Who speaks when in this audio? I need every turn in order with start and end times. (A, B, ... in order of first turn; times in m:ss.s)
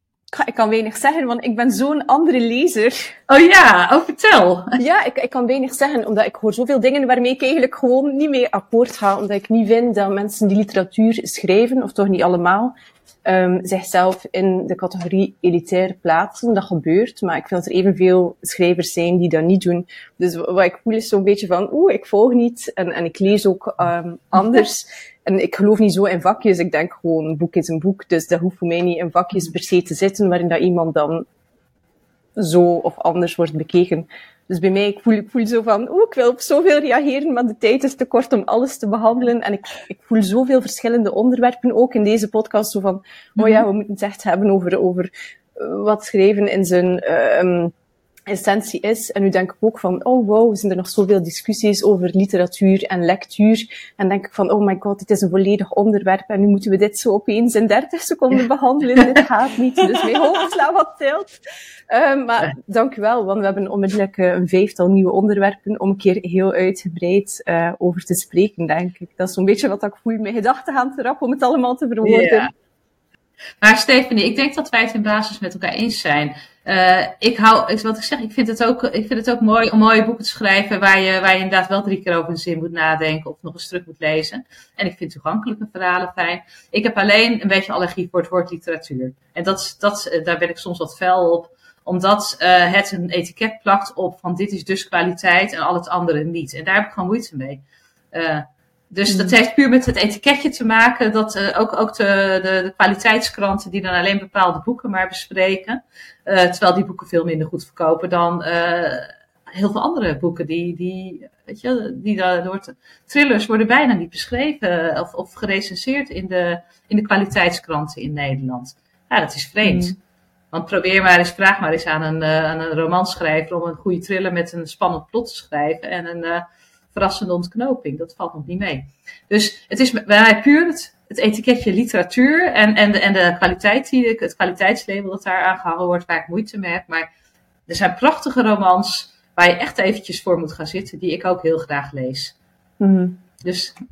0:00.3-0:03.2 A
0:03.3-0:04.8 B
0:04.8-0:12.7 A
0:13.2-0:31.2 A
0:32.4-0:47.7 A
0:43.4-0:43.6 B
0:48.3-1:01.3 A
1:01.9-1:12.5 A
1:12.0-1:12.5 B
1:13.6-2:00.0 B
1:39.1-1:39.3 A
1:59.6-2:00.0 A
2:00.5-2:17.1 B
2:17.7-2:22.3 B
2:22.8-2:23.2 A
2:23.4-2:23.7 B